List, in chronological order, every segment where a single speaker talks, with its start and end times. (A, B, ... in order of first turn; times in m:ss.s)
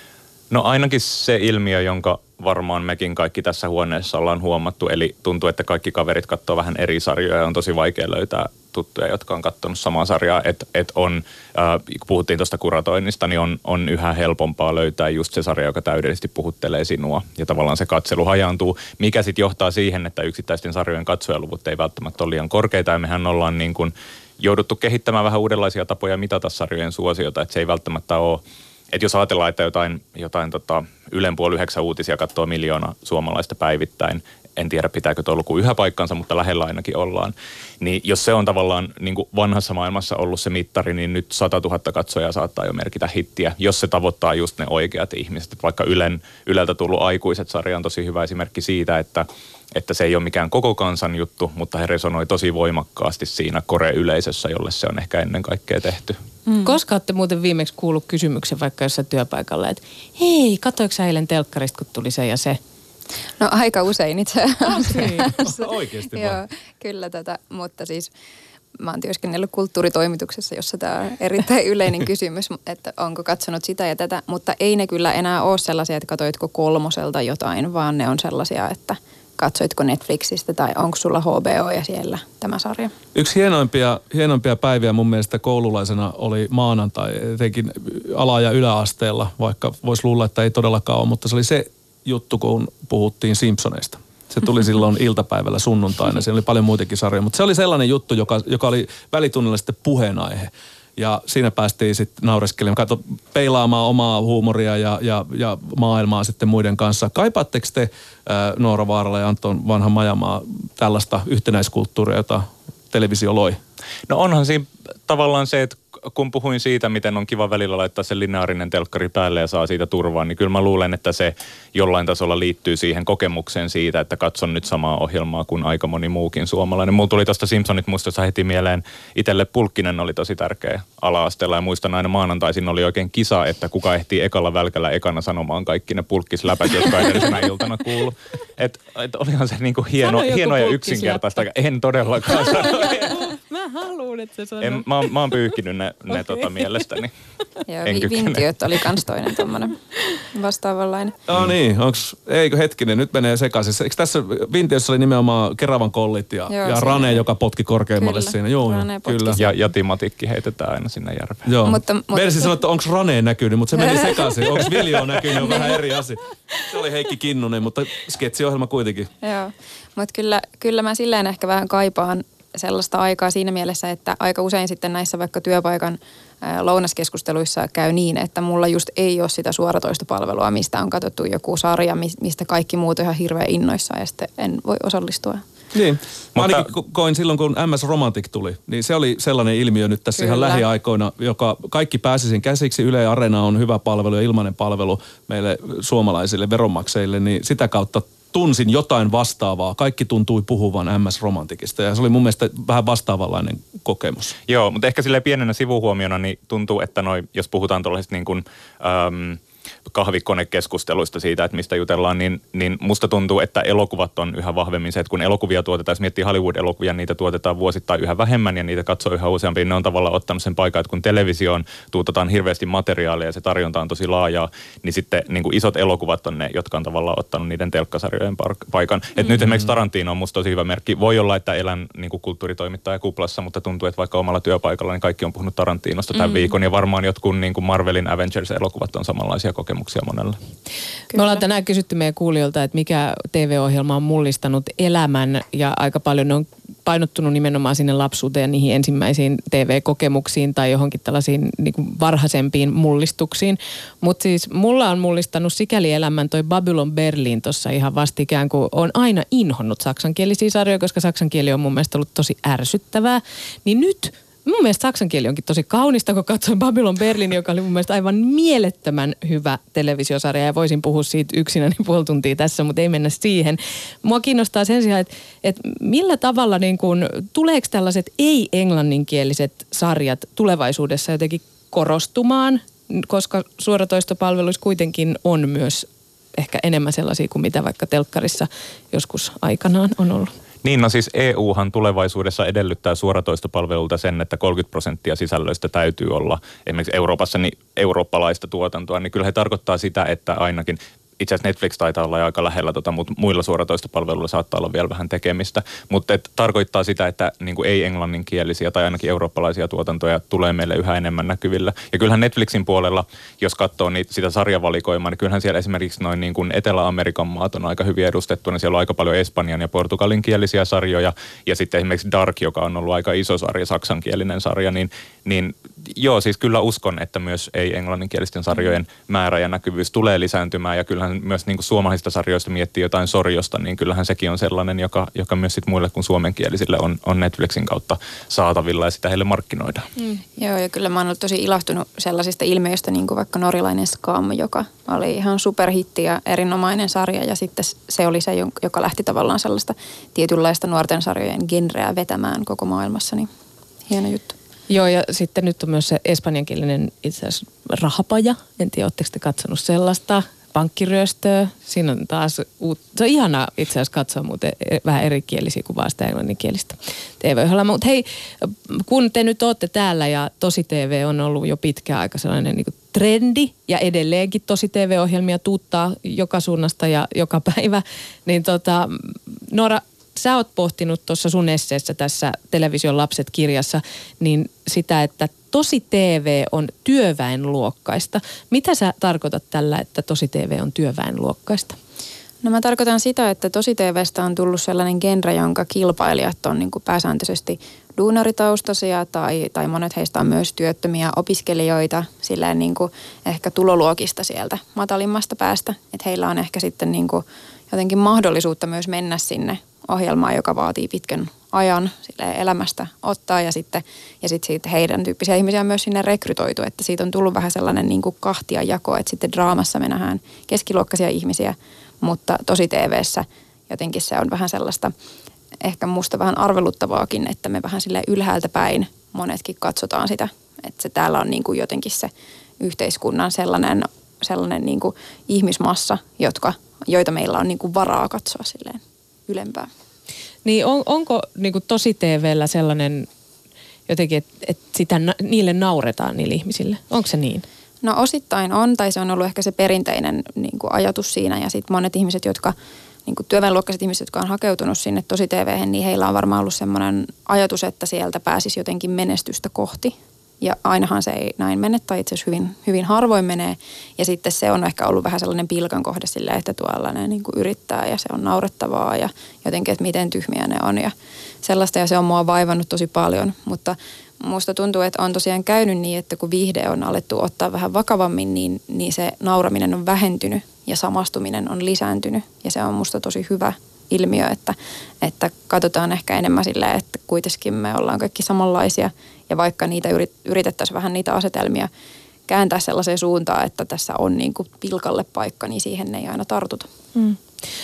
0:00.5-0:56.2 A
0:56.5-0:56.8 B
0:56.6-1:02.6 C
1:03.4-1:08.1 B
1:04.7-1:05.3 C
1:05.2-1:06.4 D
1:08.8-1:22.9 B
1:23.1-1:53.6 D
1:54.1-2:23.3 A
2:20.0-2:21.4 C
2:22.3-2:25.3 C
2:24.6-2:27.1 A
2:26.1-2:26.8 C
2:27.7-2:31.2 B
2:27.9-2:28.8 A
2:31.3-2:39.4 D
2:36.5-2:37.2 B
2:38.0-2:39.4 B
2:39.4-2:41.5 A
2:41.5-2:49.1 D
2:41.6-2:42.5 B
2:43.8-2:44.3 B
2:45.4-2:45.8 B
2:49.2-3:05.4 B
3:05.7-3:24.4 D
3:06.4-3:06.7 A
3:10.2-3:10.6 B
3:24.5-4:00.4 A
4:01.1-4:01.4 B
4:01.1-4:50.3 C
4:50.6-5:39.9 A
5:40.4-5:53.3 B
5:53.9-5:54.4 B
5:54.7-6:31.8 C
6:32.4-7:04.9 B
7:05.6-7:19.7 B
7:20.4-7:23.1 C
7:23.9-7:27.4 C
7:27.8-7:32.6 B
7:33.1-8:11.7 B
8:12.3-8:16.7 B
8:17.0-8:17.2 C